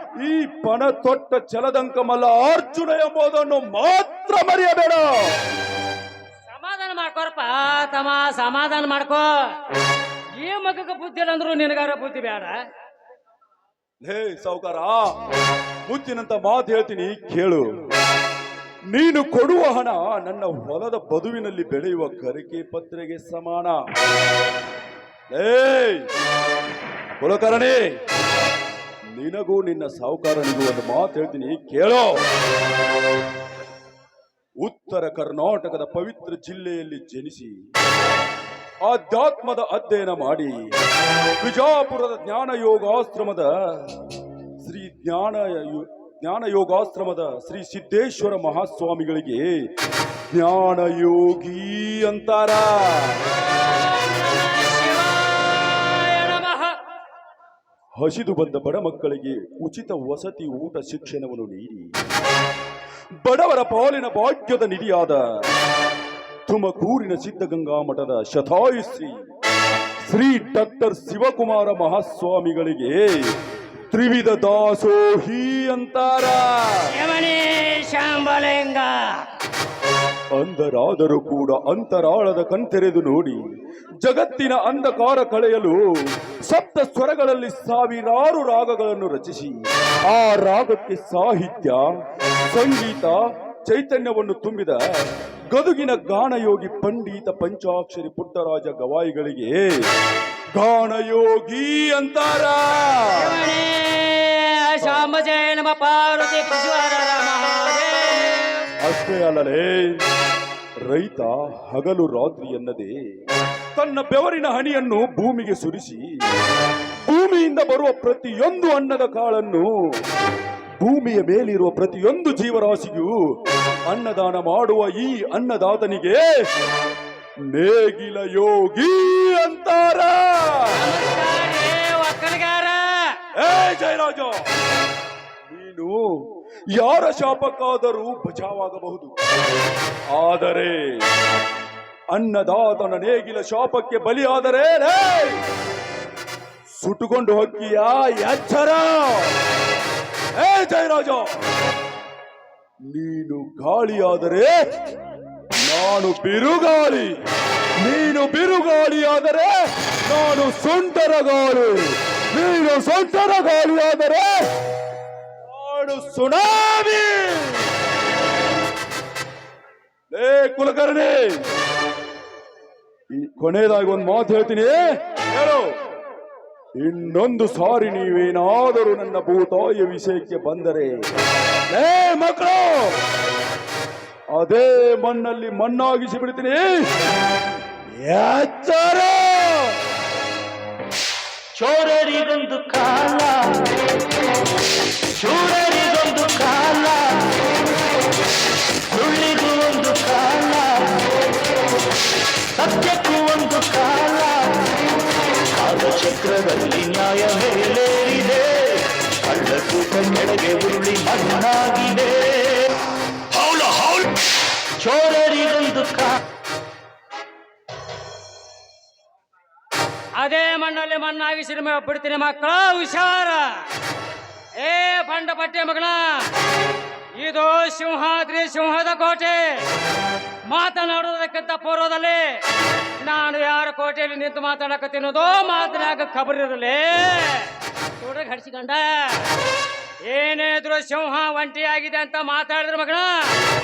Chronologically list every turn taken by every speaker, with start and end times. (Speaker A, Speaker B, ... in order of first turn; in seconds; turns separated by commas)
Speaker A: 0.2-5.4, Speaker B: 6.5-9.3, Speaker B: 10.4-12.6, Speaker A: 14.0-15.1, Speaker A: 15.9-17.7, Speaker A: 18.9-23.8, Speaker A: 25.3-26.1, Speaker A: 27.2-27.8, Speaker A: 29.1-32.2, Speaker A: 34.6-37.6, Speaker A: 38.8-40.7, Speaker A: 41.4-44.0, Speaker A: 44.6-49.5, Speaker A: 50.3-53.3, Speaker B: 53.5-56.8, Speaker A: 58.0-61.9, Speaker A: 63.2-65.2, Speaker A: 66.5-69.2, Speaker A: 70.1-73.3, Speaker A: 73.9-76.9, Speaker B: 76.9-79.0, Speaker A: 80.3-83.4, Speaker A: 84.0-91.9, Speaker A: 92.5-99.8, Speaker A: 100.5-103.4, Speaker B: 103.1-108.7, Speaker A: 104.8-105.1, Speaker A: 108.8-110.0, Speaker A: 110.8-113.0, Speaker A: 113.8-116.2, Speaker A: 117.0-120.0, Speaker A: 120.8-126.5, Speaker A: 127.5-130.9, Speaker B: 130.7-133.1, Speaker A: 133.4-134.4, Speaker A: 135.5-136.1, Speaker A: 136.7-139.2, Speaker A: 140.1-141.1, Speaker A: 142.1-145.4, Speaker A: 146.8-149.4, Speaker A: 150.4-151.4, Speaker A: 152.9-154.5, Speaker A: 155.6-157.1, Speaker A: 157.8-164.4, Speaker A: 165.5-167.7, Speaker A: 170.1-171.4, Speaker A: 173.1-175.8, Speaker A: 176.8-180.9, Speaker A: 181.7-183.0, Speaker A: 184.3-186.9, Speaker A: 187.9-189.8, Speaker C: 191.6-193.7, Speaker C: 195.1-197.4, Speaker C: 198.9-201.1, Speaker C: 202.6-204.7, Speaker C: 205.6-212.6, Speaker C: 213.3-214.1, Speaker C: 214.8-216.2, Speaker B: 220.2-223.6, Speaker B: 224.6-226.3, Speaker B: 227.2-229.6, Speaker B: 230.5-232.4, Speaker B: 233.0-239.3, Speaker B: 240.1-243.4